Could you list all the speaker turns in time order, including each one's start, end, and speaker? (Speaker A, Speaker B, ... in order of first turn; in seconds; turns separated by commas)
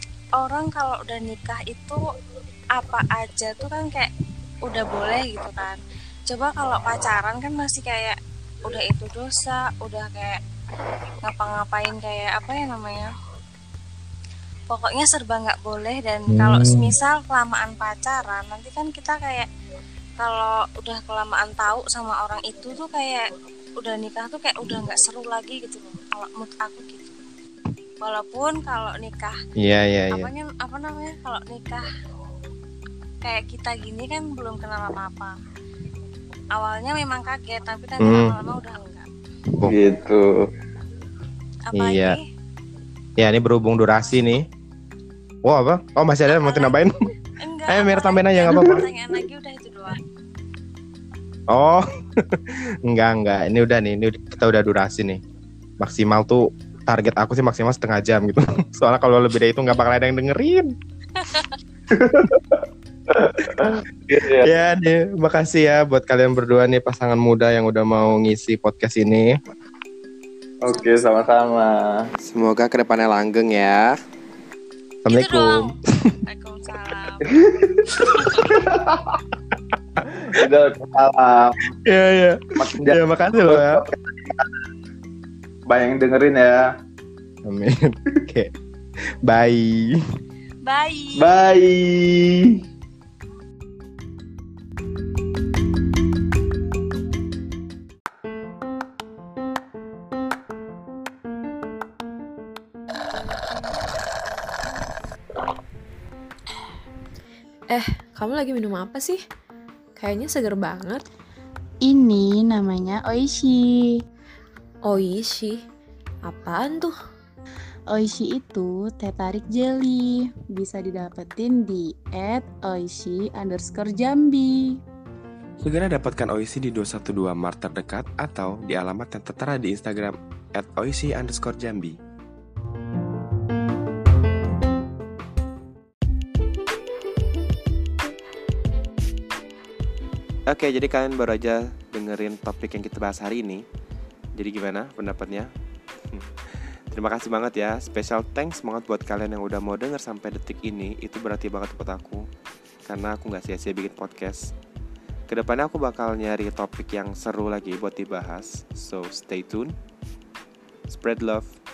Speaker A: 0.4-2.0, Speaker A: 2.8-4.1, Speaker A: 4.7-10.4, Speaker A: 11.2-13.1, Speaker A: 14.7-19.5, Speaker B: 16.3-16.9, Speaker A: 20.2-23.2, Speaker A: 23.8-27.2, Speaker A: 28.0-29.4, Speaker B: 29.6-30.3, Speaker A: 30.1-31.9, Speaker A: 33.2-35.3, Speaker A: 36.5-39.1, Speaker B: 38.0-38.3, Speaker C: 39.6-40.3, Speaker A: 41.7-42.2, Speaker B: 41.7-42.2, Speaker B: 43.2-44.4, Speaker B: 45.4-46.9, Speaker A: 46.3-46.8, Speaker A: 47.4-50.0, Speaker B: 47.7-48.9, Speaker B: 51.5-55.2, Speaker B: 55.8-60.7, Speaker A: 61.2-61.6, Speaker C: 61.9-64.6, Speaker B: 63.4-63.8, Speaker B: 64.4-69.4, Speaker C: 70.6-72.0, Speaker A: 70.7-71.8, Speaker B: 72.2-74.0, Speaker B: 75.0-75.7, Speaker A: 75.1-75.7, Speaker A: 76.2-77.3, Speaker C: 77.3-77.9, Speaker A: 78.0-78.6, Speaker C: 78.6-79.2, Speaker C: 80.2-81.6, Speaker B: 81.8-83.8, Speaker C: 82.6-84.5, Speaker C: 85.7-86.6, Speaker B: 87.5-88.5, Speaker B: 89.2-90.0, Speaker A: 90.6-91.3, Speaker C: 91.2-92.6, Speaker D: 107.7-109.2, Speaker D: 110.0-111.0, Speaker E: 111.8-113.9, Speaker D: 114.8-115.6, Speaker D: 116.2-117.0, Speaker E: 117.9-124.8, Speaker B: 125.6-132.0, Speaker B: 140.5-143.6, Speaker B: 144.3-145.5, Speaker B: 146.1-152.2, Speaker B: 152.8-154.5, Speaker B: 155.3-159.7, Speaker B: 160.9-161.5